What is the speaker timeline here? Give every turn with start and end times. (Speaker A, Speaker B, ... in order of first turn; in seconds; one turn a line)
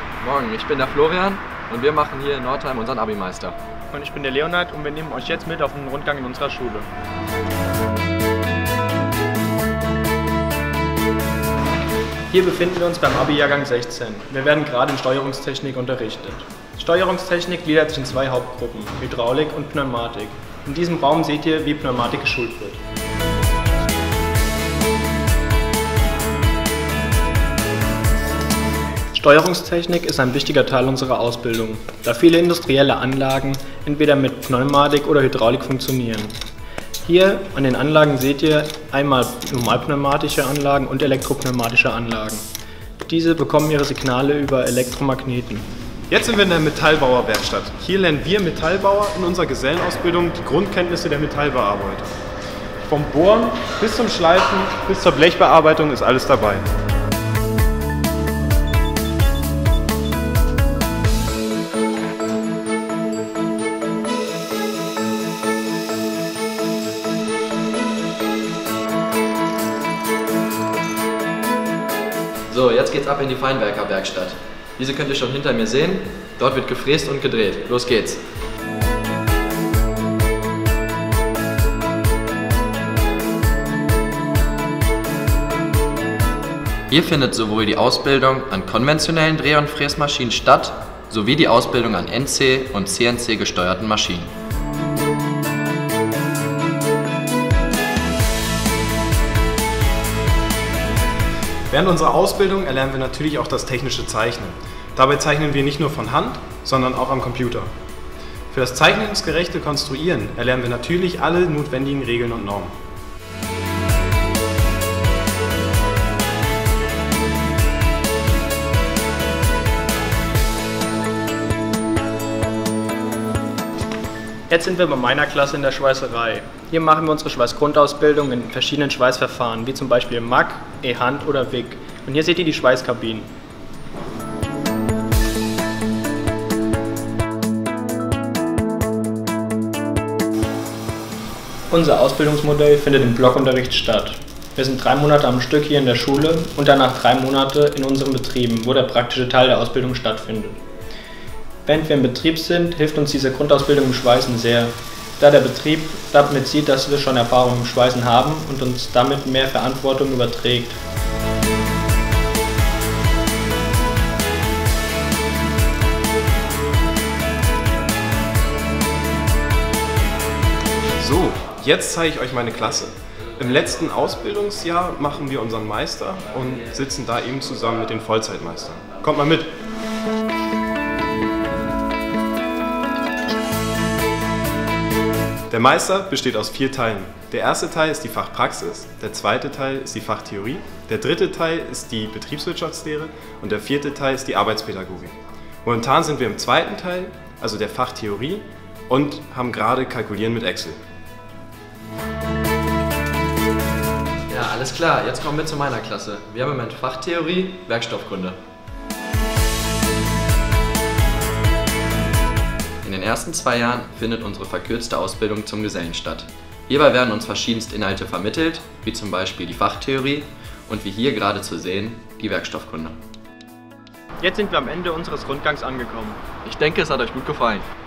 Speaker A: 0.2-3.5
Speaker B: 3.9-6.9
Speaker B: 12.3-22.8
Speaker B: 29.1-36.3
Speaker B: 37.0-42.4
Speaker B: 43.0-45.6
Speaker C: 46.1-52.1
Speaker C: 52.8-56.6
Speaker A: 72.5-78.2
Speaker A: 86.9-94.3
Speaker C: 101.7-107.7
Speaker C: 108.5-112.8
Speaker B: 124.5-133.3
Speaker B: 141.7-150.6
Speaker B: 151.6-160.8
Speaker C: 171.0-179.5
Speaker C: 185.5-200.8
Speaker A: 204.3-208.4
Speaker A: 212.8-223.0
Speaker B: 224.2-226.2
Speaker A: 226.4-227.7